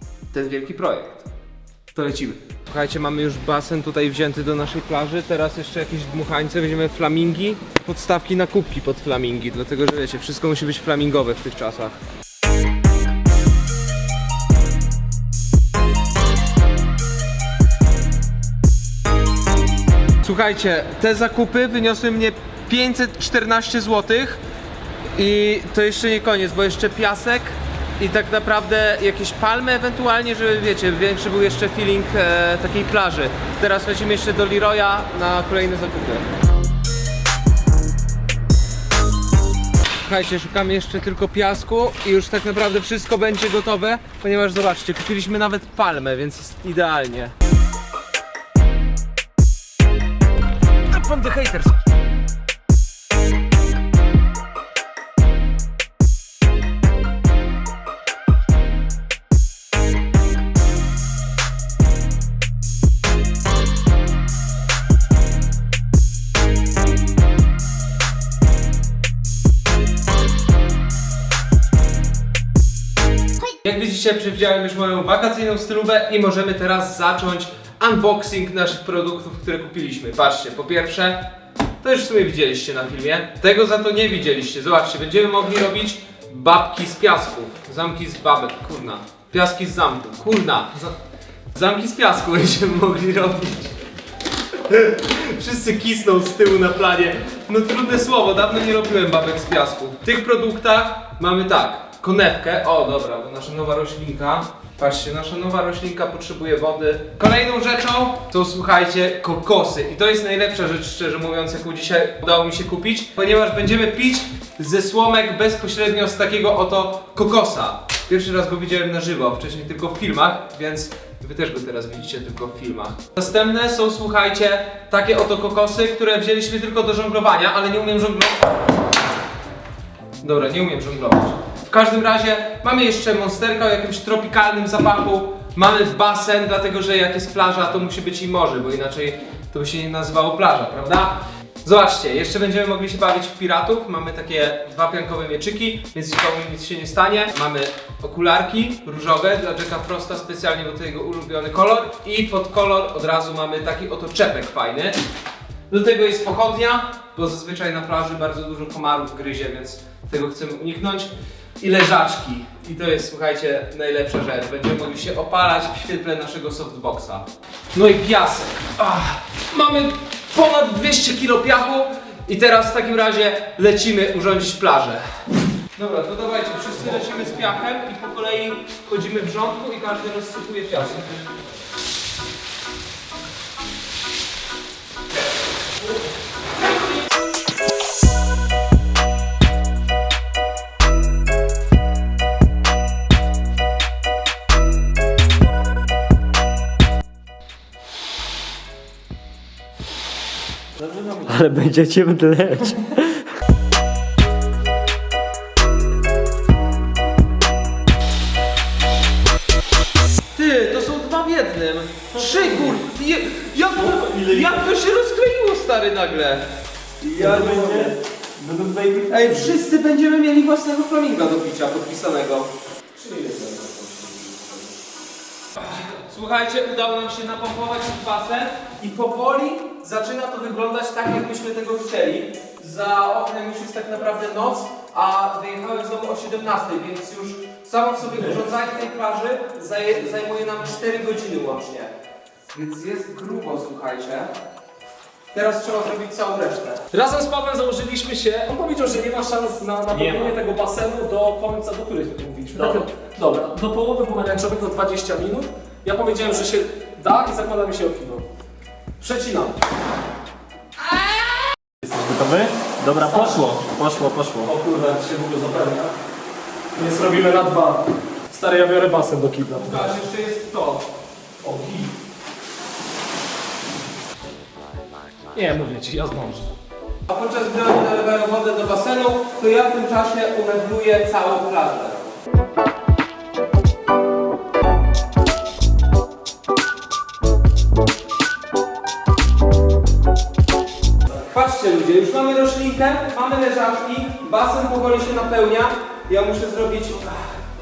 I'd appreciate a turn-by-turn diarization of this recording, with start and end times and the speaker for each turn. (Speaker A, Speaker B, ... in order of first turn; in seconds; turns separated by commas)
Speaker A: 0.3-1.3, Speaker A: 1.9-12.0, Speaker A: 20.2-24.4, Speaker A: 25.1-36.2, Speaker A: 40.0-47.3, Speaker A: 50.9-51.8, Speaker A: 73.6-91.0, Speaker A: 91.5-93.7, Speaker A: 94.6-128.5, Speaker A: 130.2-155.0, Speaker A: 155.7-175.0, Speaker A: 175.7-181.2, Speaker B: 200.8-201.6, Speaker A: 210.3-216.4, Speaker C: 212.2-212.7, Speaker B: 213.7-214.7, Speaker A: 217.0-217.9, Speaker B: 217.0-219.5, Speaker A: 219.1-222.5, Speaker C: 222.9-224.7, Speaker A: 225.6-241.9, Speaker A: 242.5-244.3, Speaker A: 245.3-246.8, Speaker C: 246.9-258.3, Speaker B: 249.9-250.4, Speaker B: 252.5-252.9, Speaker A: 259.0-259.5, Speaker B: 261.8-264.5, Speaker C: 262.9-263.7, Speaker C: 264.4-265.9, Speaker C: 266.7-269.9, Speaker A: 269.5-270.9, Speaker C: 271.4-271.9, Speaker C: 275.3-276.5, Speaker A: 277.1-282.1, Speaker A: 291.3-297.4